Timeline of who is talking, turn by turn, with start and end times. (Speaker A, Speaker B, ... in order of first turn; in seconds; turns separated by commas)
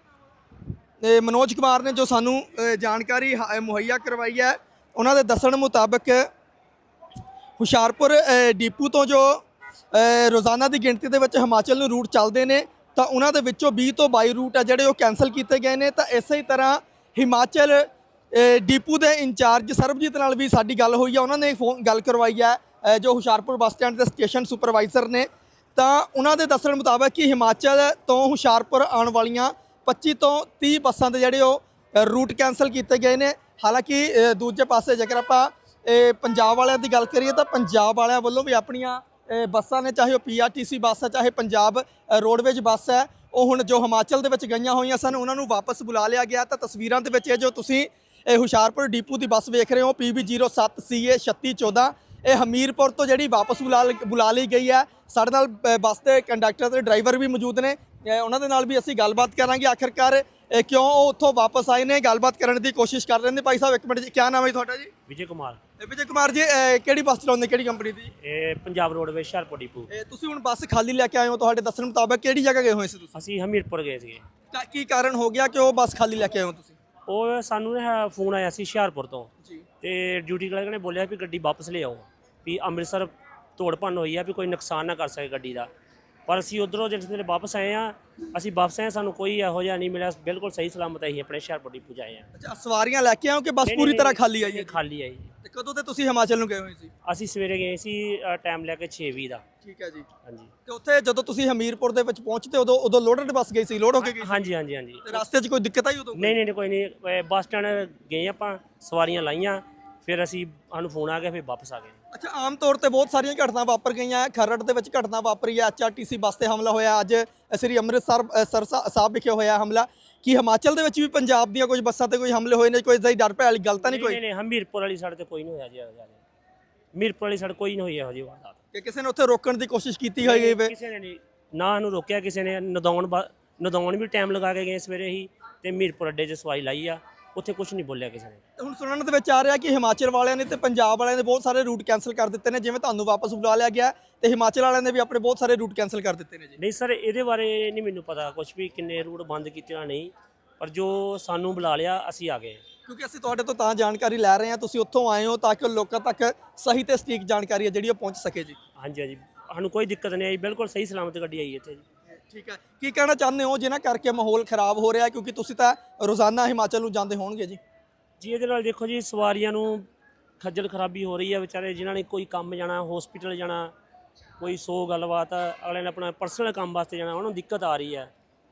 Speaker A: 1.0-6.3, Speaker A: 7.6-9.4, Speaker A: 9.9-64.9, Speaker B: 65.1-65.6, Speaker A: 65.8-68.1, Speaker B: 68.2-69.9, Speaker A: 69.9-73.2, Speaker B: 73.1-74.2, Speaker A: 74.5-76.8, Speaker B: 77.1-79.3, Speaker B: 79.8-85.7, Speaker B: 86.3-92.3, Speaker A: 92.4-94.8, Speaker B: 93.6-95.3, Speaker A: 95.4-96.9, Speaker B: 97.0-99.4, Speaker A: 99.6-100.1, Speaker B: 100.2-100.5, Speaker A: 100.7-104.5, Speaker B: 104.0-105.2, Speaker A: 105.0-106.4, Speaker B: 106.1-112.0, Speaker A: 112.1-124.2, Speaker B: 123.7-126.2, Speaker B: 126.9-128.6, Speaker A: 128.7-130.7, Speaker B: 130.2-138.4, Speaker A: 138.6-146.6, Speaker B: 146.6-152.6, Speaker A: 152.9-158.6, Speaker B: 158.8-161.8, Speaker A: 162.1-167.6, Speaker B: 168.2-169.9, Speaker B: 170.4-173.7, Speaker B: 174.4-178.1